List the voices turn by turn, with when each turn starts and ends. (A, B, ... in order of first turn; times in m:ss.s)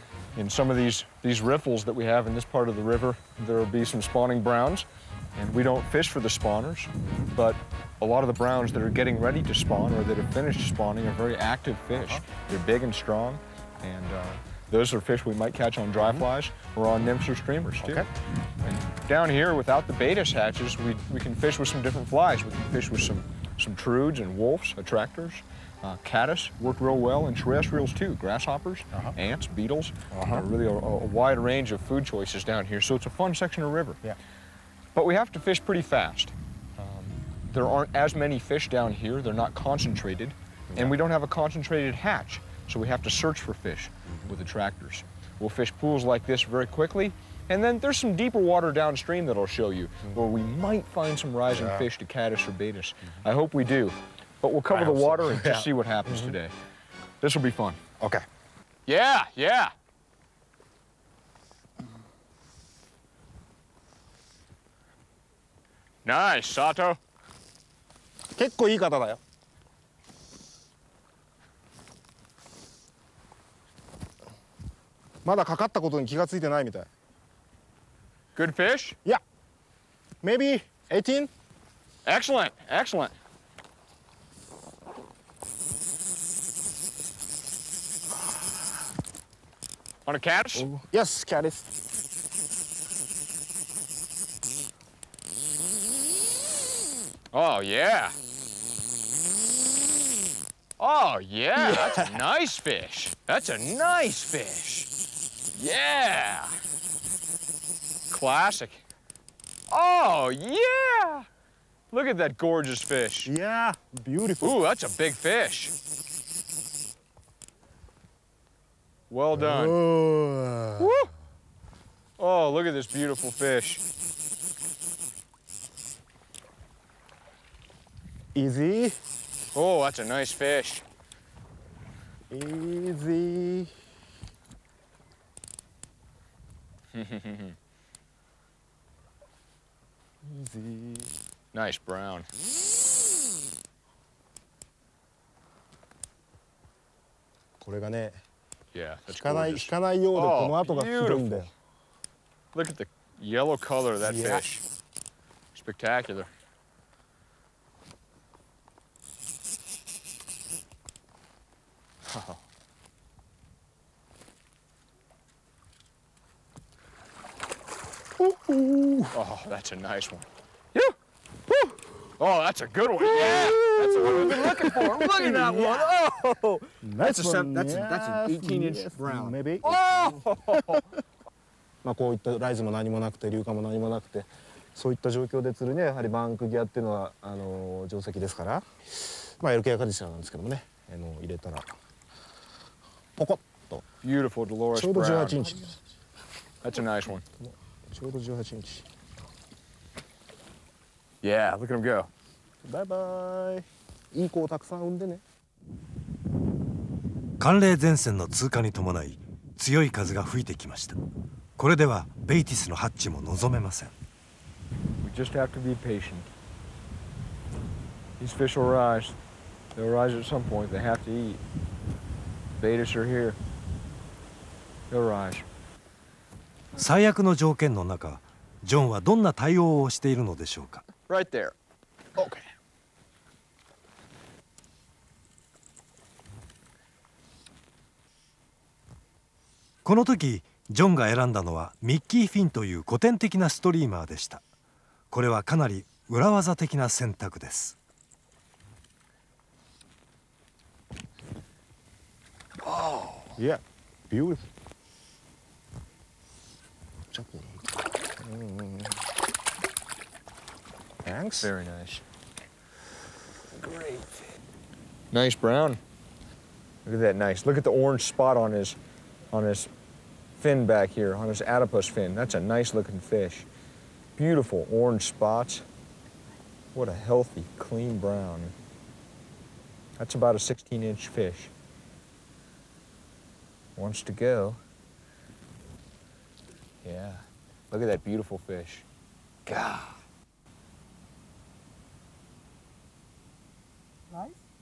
0:00.3-0:18.0 A
0:17.8-0:18.1 B
0:18.6-0:34.0 A
0:30.1-0:30.4 B
0:34.9-0:56.5 A
0:51.5-0:51.9 B
0:54.7-0:56.3 B
0:57.2-0:57.8 A
0:58.0-0:58.2 B
0:58.9-0:59.7 A
1:06.0-1:07.0 A
1:08.3-1:09.2 B
1:15.2-1:16.9 B
1:18.3-1:19.0 A
1:20.2-1:21.3 B
1:22.0-1:23.1 A
1:30.0-1:30.7 A
1:30.5-1:31.6 B
1:37.3-1:38.1 A
1:40.8-1:44.9 A
1:41.6-1:42.0 B
1:45.5-1:46.6 A
1:48.1-1:48.8 A
1:49.7-1:51.3 A
1:51.9-1:53.3 A
1:53.2-1:54.6 B
1:54.4-1:55.7 A
1:59.1-1:59.8 A
1:59.3-2:00.9 B
2:00.8-2:01.1 A
2:02.2-2:03.8 A
2:08.3-2:09.0 B
2:09.5-2:10.8 A
2:12.3-2:13.7 B
2:16.9-2:17.5 A
2:20.2-2:21.1 B
2:21.5-2:22.2 A
2:27.6-2:28.2 B
2:28.7-2:31.5 A
2:29.2-2:31.5 B
2:32.5-2:34.6 A
2:34.0-2:34.4 B
2:35.5-2:36.3 A
2:42.1-2:42.4 A
2:48.2-2:49.1 B
2:49.1-2:50.9 A
2:52.2-3:00.8 A
2:53.5-2:56.0 B
2:56.8-3:00.8 B
3:01.8-3:11.7 B
3:13.2-3:13.8 B
3:14.0-3:15.4 A
3:14.7-3:15.8 B
3:16.6-3:17.2 A
3:17.4-3:18.8 B
3:21.2-3:22.1 A
3:22.6-3:25.2 B
3:27.4-3:31.0 C
3:31.6-3:33.9 C
3:35.0-3:36.3 A
3:38.2-3:39.2 A
3:39.8-3:41.4 A
3:42.6-3:43.4 A
3:44.9-3:45.4 A
3:46.8-3:50.8 C
3:51.1-3:51.5 A
3:52.2-3:52.4 A
3:59.8-4:04.4 C
4:05.1-4:07.8 C
4:12.6-4:13.3 A
4:13.4-4:14.4 B
4:17.1-4:17.6 B
4:18.2-4:18.9 B
4:21.0-4:21.5 B
4:21.4-4:22.0 A
4:23.6-4:24.1 A
4:25.1-4:25.8 A
4:26.8-4:28.8 A
4:29.3-4:29.7 A
4:30.4-4:33.5 A
4:34.2-4:35.6 A
4:36.7-4:38.5 A
4:40.0-4:41.5 A
4:43.8-4:44.6 A
4:46.8-4:48.8 A
4:49.4-4:50.0 A